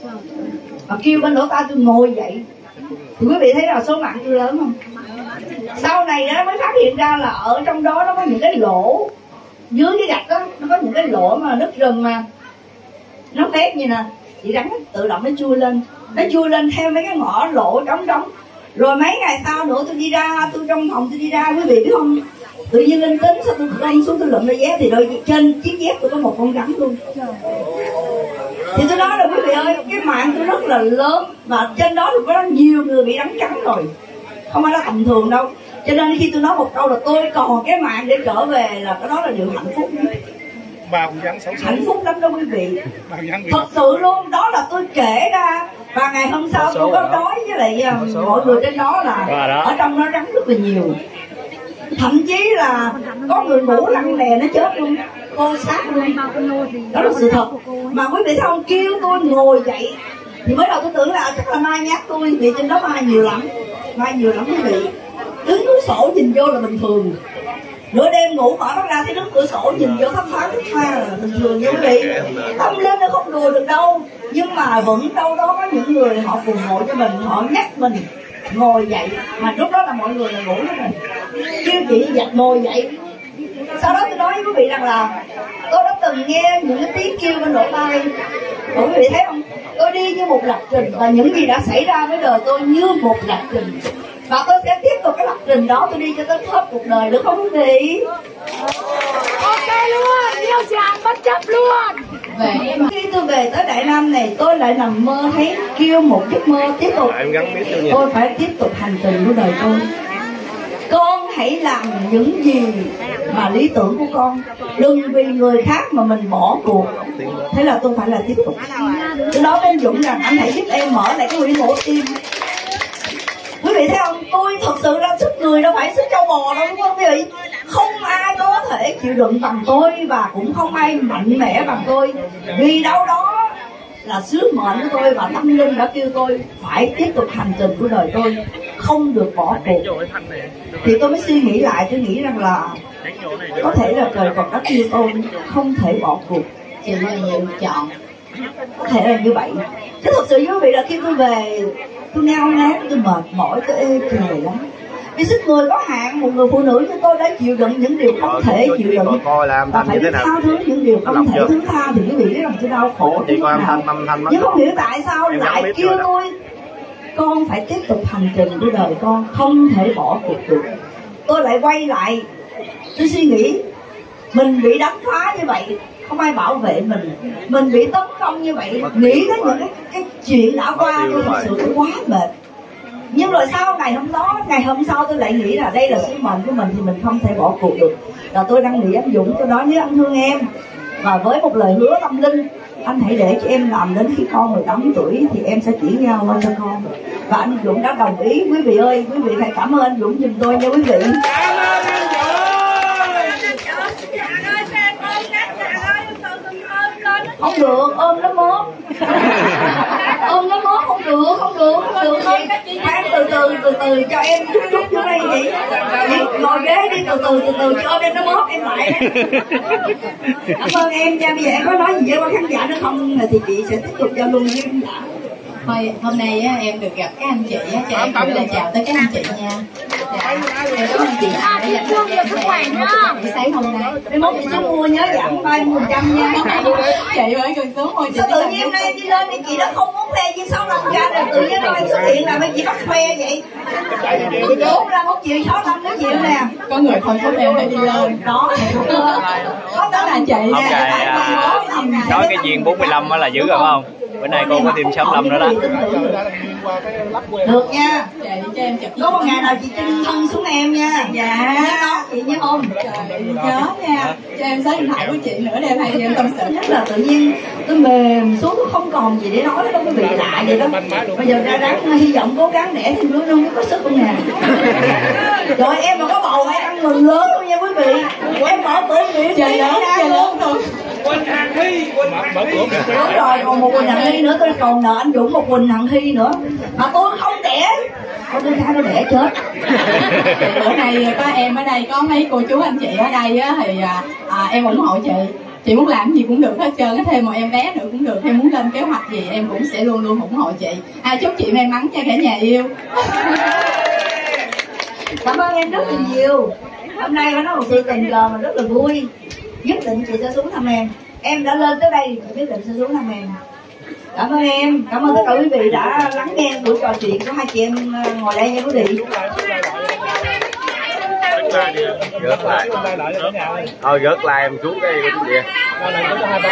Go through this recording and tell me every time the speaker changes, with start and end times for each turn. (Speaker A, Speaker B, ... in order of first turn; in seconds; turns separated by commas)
Speaker A: 0.9-2.4, Speaker A: 3.2-4.8, Speaker A: 5.7-9.1, Speaker A: 9.7-12.2, Speaker A: 13.3-27.0, Speaker A: 28.7-33.9, Speaker A: 34.5-40.2, Speaker A: 41.5-42.8, Speaker A: 43.4-51.0, Speaker B: 46.6-47.2, Speaker B: 47.9-48.6, Speaker C: 49.2-49.7, Speaker A: 52.0-56.2, Speaker D: 56.3-58.0, Speaker A: 56.9-64.9, Speaker A: 65.4-67.2, Speaker A: 67.9-81.0, Speaker B: 71.7-72.8, Speaker A: 81.6-82.9, Speaker A: 83.8-85.1, Speaker A: 85.7-88.1, Speaker A: 88.7-98.0, Speaker D: 99.1-102.0, Speaker E: 102.3-102.9, Speaker A: 102.9-107.1, Speaker B: 107.0-108.1, Speaker A: 107.9-109.9, Speaker A: 110.9-116.9, Speaker B: 117.0-117.5, Speaker A: 117.5-122.2, Speaker A: 123.6-139.9, Speaker A: 140.8-142.8, Speaker A: 143.5-146.5, Speaker E: 146.8-147.9, Speaker A: 148.8-166.3, Speaker B: 158.2-160.5, Speaker B: 161.0-161.5, Speaker B: 163.0-166.1, Speaker A: 167.1-172.3, Speaker A: 172.9-173.6, Speaker A: 174.3-182.3, Speaker B: 178.8-179.7, Speaker B: 180.7-181.5, Speaker A: 183.1-190.5, Speaker A: 191.0-201.2, Speaker A: 207.4-208.7, Speaker A: 210.2-219.1, Speaker E: 212.3-212.9, Speaker A: 220.5-225.1, Speaker E: 225.6-234.0, Speaker D: 231.3-233.2, Speaker A: 234.1-236.7, Speaker E: 236.3-238.9, Speaker A: 238.1-243.4, Speaker A: 244.0-246.5, Speaker E: 246.7-252.0, Speaker A: 247.6-253.7, Speaker C: 250.5-255.6, Speaker A: 254.3-256.2, Speaker A: 257.4-258.1, Speaker E: 258.2-259.5, Speaker A: 259.0-262.7, Speaker E: 261.1-262.1, Speaker E: 262.8-266.5, Speaker A: 266.1-274.2, Speaker A: 275.5-280.3, Speaker E: 279.3-280.6, Speaker A: 282.7-287.7, Speaker E: 283.7-284.2, Speaker A: 288.3-289.4, Speaker E: 289.9-303.4, Speaker A: 305.2-309.1, Speaker E: 305.7-306.2, Speaker A: 309.6-313.4, Speaker A: 314.1-319.1, Speaker B: 321.5-323.0, Speaker B: 323.8-325.5